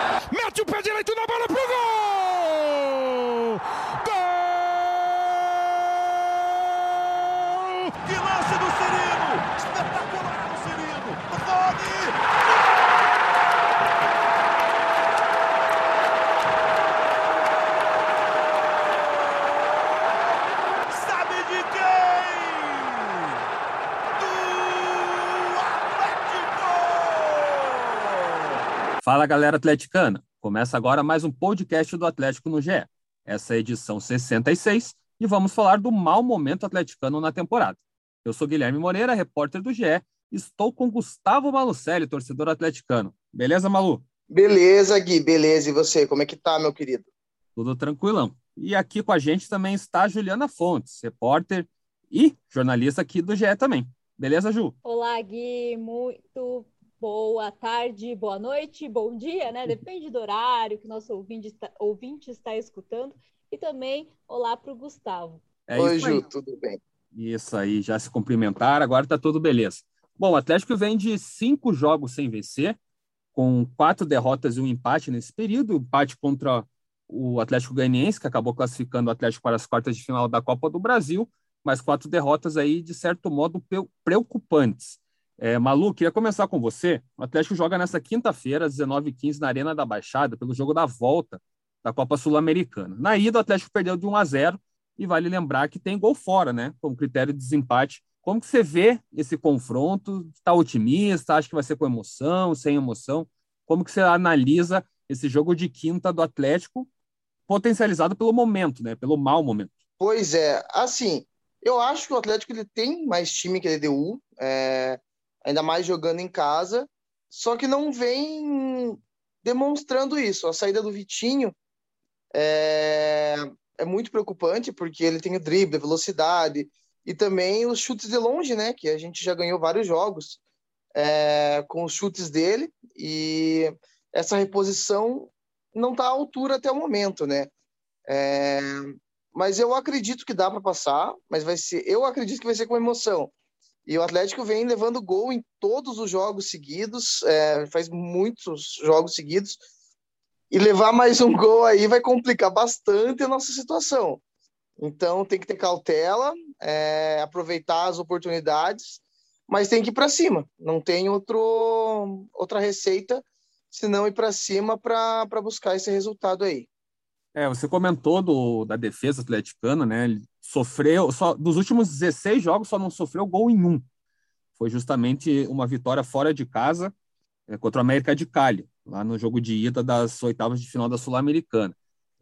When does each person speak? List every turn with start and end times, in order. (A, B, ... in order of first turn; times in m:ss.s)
0:00.3-0:05.1 A
0:07.3-0:10.7 A
0:08.0-0:12.2 B
0:20.9-0:22.8 B
0:22.7-0:23.2 A
0:24.2-0:28.3 B
0:24.7-0:25.0 A
0:29.0-0:44.0 C
0:44.3-0:47.1 D
0:47.6-0:54.7 C
0:54.8-1:05.4 E
1:05.7-1:06.2 C
1:05.8-1:06.8 D
1:07.1-1:12.8 C
1:13.3-1:46.9 C
1:47.5-1:49.7 C
1:50.0-2:01.6 D
2:02.3-2:10.4 D
2:10.9-2:17.5 D
2:18.1-2:23.3 D
2:23.8-2:29.6 D
2:30.5-2:34.2 D
2:34.8-2:46.7 D
2:47.3-2:53.8 C
2:54.6-2:56.9 C
2:57.5-3:01.7 C